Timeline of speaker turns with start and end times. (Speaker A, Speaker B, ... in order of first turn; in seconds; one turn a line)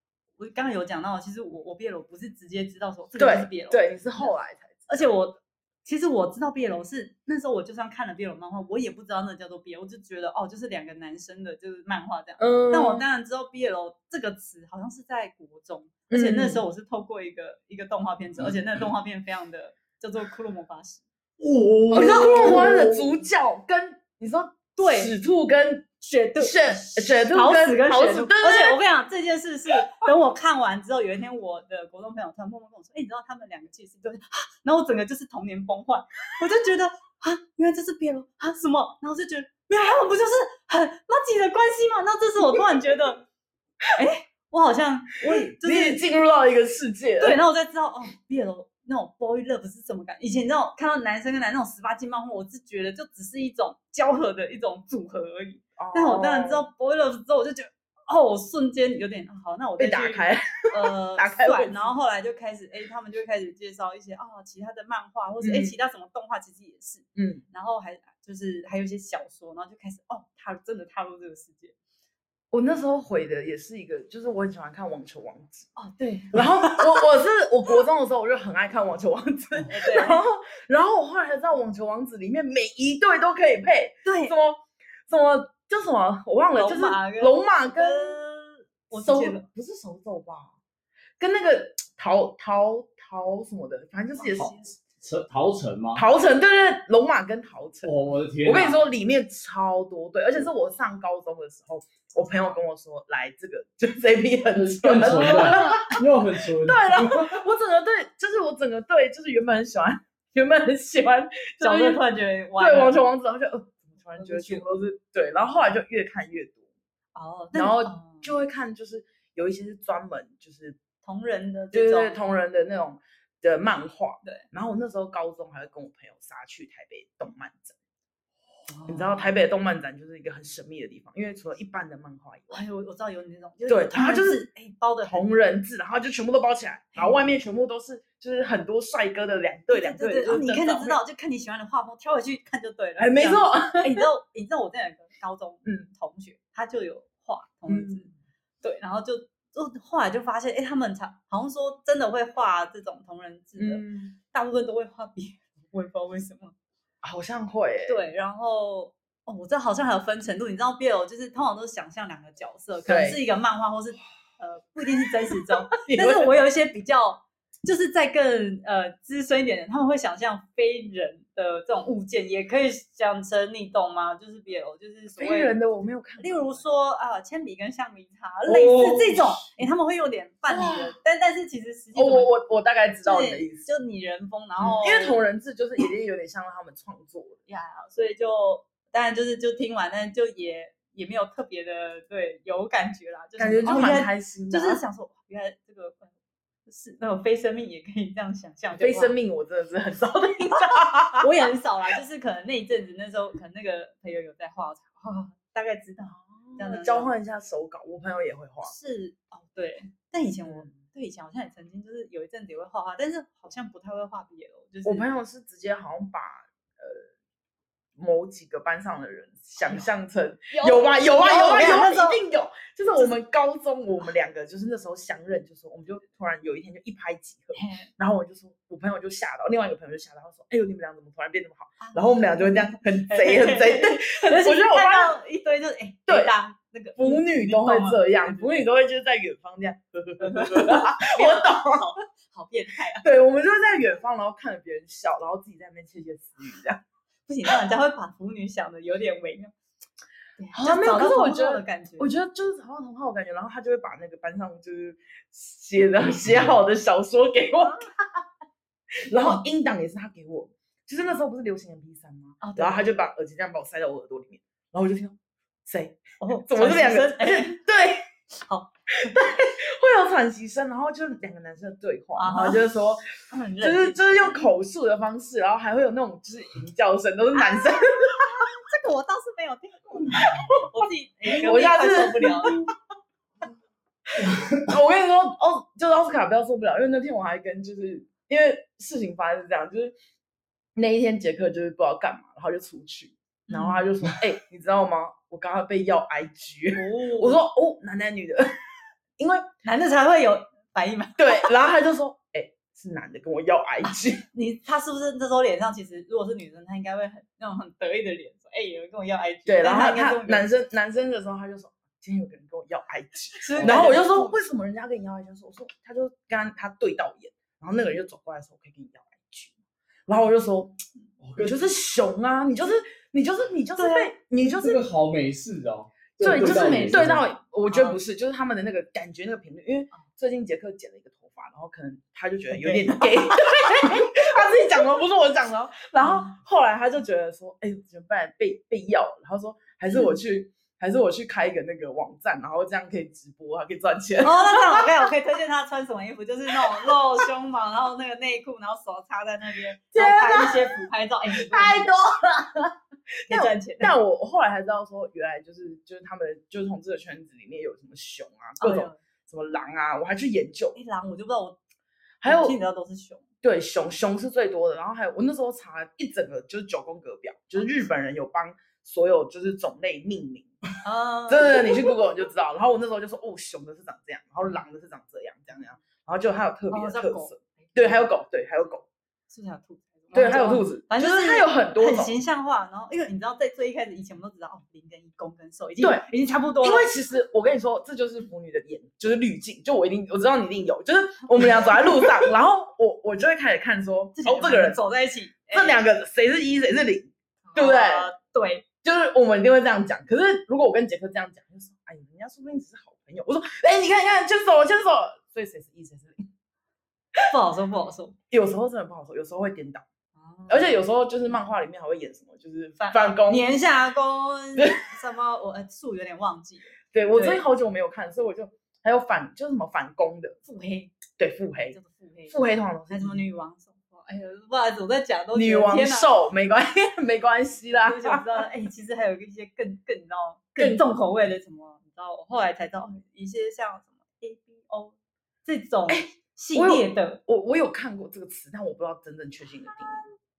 Speaker A: 0.4-4.3
Speaker B: 3.1-4.9
Speaker A: 4.9-21.0
Speaker B: 12.4-13.0
Speaker B: 16.1-16.6
Speaker C: 21.4-23.0
Speaker B: 21.9-28.8
Speaker A: 21.9-22.8
Speaker A: 24.8-25.1
Speaker A: 26.0-43.2
Speaker A: 44.0-46.0
Speaker B: 45.4-47.4
Speaker A: 47.2-71.8
Speaker B: 55.8-56.6
Speaker B: 59.8-61.9
Speaker B: 65.4-65.8
Speaker B: 67.2-67.4
Speaker B: 72.5-75.7
Speaker A: 75.8-76.9
Speaker B: 76.3-88.2
Speaker A: 79.7-80.2
Speaker A: 84.0-84.3
Speaker A: 86.5-89.5
Speaker B: 88.9-90.5
Speaker B: 91.2-94.7
Speaker A: 94.2-94.7
Speaker C: 95.0-96.0
Speaker B: 95.9-106.0
Speaker C: 97.8-98.8
Speaker C: 104.5-107.4
Speaker A: 105.1-106.0
Speaker B: 106.6-112.0
Speaker A: 111.6-113.0
Speaker B: 112.6-116.6
Speaker A: 114.2-114.7
Speaker A: 117.2-118.3
Speaker B: 117.5-120.8
Speaker A: 121.0-122.2
Speaker B: 121.7-127.8
Speaker A: 128.7-129.3
Speaker B: 128.9-132.6
Speaker A: 132.5-135.3
Speaker B: 133.7-134.5
Speaker B: 135.0-141.0
Speaker A: 139.7-148.1
Speaker B: 143.0-144.0
Speaker B: 147.7-148.1
Speaker A: 148.6-156.6
Speaker B: 153.6-154.2
Speaker B: 157.0-158.0
Speaker A: 157.9-175.5
Speaker B: 162.8-163.2
Speaker B: 165.8-166.3
Speaker B: 175.2-176.5
Speaker A: 176.2-182.3
Speaker B: 178.5-179.5
Speaker B: 180.5-180.9
Speaker B: 181.9-183.7
Speaker A: 183.0-185.2
Speaker B: 184.6-187.4
Speaker A: 187.5-196.1
Speaker B: 193.4-194.8
Speaker A: 196.7-199.2
Speaker B: 198.8-201.3
Speaker A: 200.8-207.1
Speaker B: 206.2-208.7
Speaker A: 208.6-215.1
Speaker B: 210.5-210.7
Speaker B: 214.8-217.0
Speaker B: 217.9-235.1
Speaker A: 219.6-219.9
Speaker A: 220.5-222.2
Speaker A: 227.6-227.9
Speaker A: 231.8-238.6
Speaker B: 236.1-236.3
Speaker B: 237.0-241.9
Speaker A: 240.2-243.1
Speaker B: 243.0-246.8
Speaker A: 247.3-249.5
Speaker A: 250.4-252.1
Speaker B: 250.5-257.9
Speaker B: 259.1-268.1
Speaker A: 262.4-262.8
Speaker A: 266.2-267.6
Speaker A: 268.4-269.3
Speaker B: 269.1-273.1
Speaker A: 272.2-272.6
Speaker A: 273.3-274.5
Speaker B: 273.6-278.3
Speaker A: 277.4-282.7
Speaker B: 280.1-280.5
Speaker B: 281.3-282.7
Speaker B: 284.2-289.9
Speaker C: 284.2-284.7
Speaker B: 290.8-298.5
Speaker A: 293.5-293.9
Speaker A: 296.7-297.4
Speaker B: 299.2-299.5
Speaker A: 299.6-301.5
Speaker B: 301.2-304.2
Speaker A: 303.9-310.4
Speaker B: 309.4-319.5
Speaker A: 313.4-314.4
Speaker C: 313.6-313.9
Speaker B: 320.1-320.8
Speaker C: 321.2-321.7
Speaker B: 321.4-324.8
Speaker A: 323.8-324.1
Speaker C: 324.5-327.3
Speaker B: 326.2-344.9
Speaker A: 326.4-327.0
Speaker A: 327.7-328.0
Speaker A: 332.5-334.1
Speaker A: 336.0-336.4
Speaker A: 339.9-340.2
Speaker A: 344.2-351.9
Speaker B: 349.9-352.8
Speaker A: 353.3-354.0
Speaker B: 353.3-360.8
Speaker A: 358.6-359.0
Speaker A: 360.8-361.6
Speaker B: 362.2-362.6
Speaker A: 362.2-363.2
Speaker B: 363.4-370.5
Speaker A: 370.8-371.7
Speaker B: 371.3-378.9
Speaker A: 376.7-378.0
Speaker A: 379.3-386.9
Speaker B: 380.1-382.2
Speaker B: 385.8-386.1
Speaker B: 386.6-394.8
Speaker A: 394.2-395.8
Speaker B: 395.5-398.1
Speaker A: 397.4-398.6
Speaker B: 398.8-406.3
Speaker A: 407.3-408.2
Speaker B: 408.3-409.9
Speaker A: 410.1-410.8
Speaker B: 410.5-413.5
Speaker A: 412.8-417.4
Speaker B: 416.9-420.4
Speaker A: 420.4-421.0
Speaker B: 421.2-421.8
Speaker A: 421.7-422.4
Speaker B: 422.3-423.2
Speaker A: 422.9-426.1
Speaker B: 425.3-428.3
Speaker A: 427.8-437.2
Speaker B: 430.6-430.8
Speaker B: 435.9-440.1